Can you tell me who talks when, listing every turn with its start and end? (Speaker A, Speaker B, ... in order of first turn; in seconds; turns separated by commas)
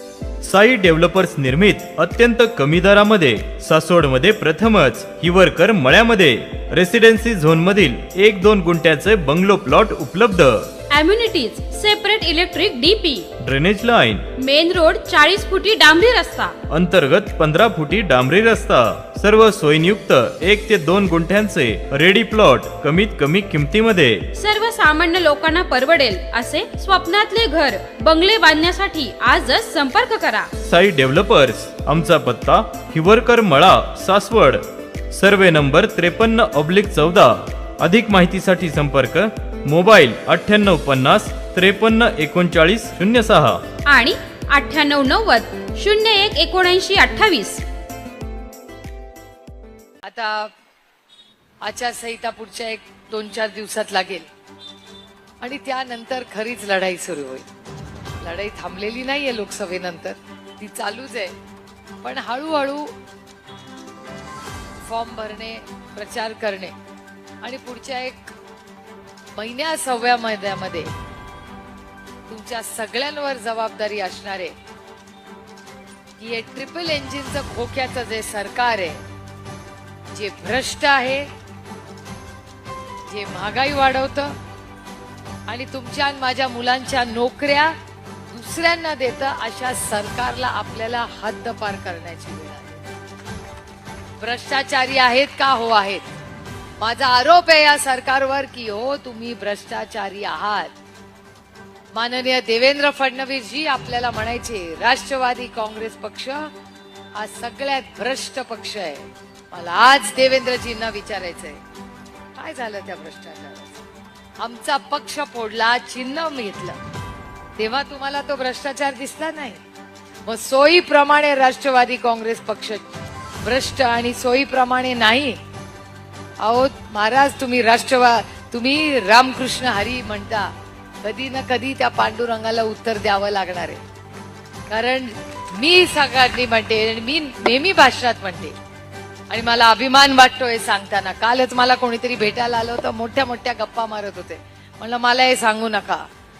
Speaker A: 0.4-10.7, Speaker B: 10.9-13.3, Speaker A: 13.4-14.2, Speaker B: 14.4-16.5, Speaker A: 16.7-24.2, Speaker B: 24.4-30.5, Speaker A: 30.6-43.6, Speaker B: 43.9-47.6, Speaker C: 50.0-50.5, Speaker C: 51.6-54.3, Speaker C: 55.4-57.5, Speaker C: 58.2-61.3, Speaker C: 62.0-62.9, Speaker C: 64.8-66.7, Speaker C: 67.4-68.3, Speaker C: 69.3-70.9, Speaker C: 72.3-74.5, Speaker C: 76.2-79.0, Speaker C: 80.1-81.3, Speaker C: 83.1-84.3, Speaker C: 85.5-87.7, Speaker C: 88.3-92.8, Speaker C: 94.2-96.0, Speaker C: 96.8-100.7, Speaker C: 101.9-106.5, Speaker C: 107.2-111.6, Speaker C: 112.4-113.8, Speaker C: 114.4-116.8, Speaker C: 117.6-119.6, Speaker C: 120.2-125.4, Speaker C: 126.4-130.5, Speaker C: 131.0-133.8, Speaker C: 134.7-138.5, Speaker C: 139.3-146.0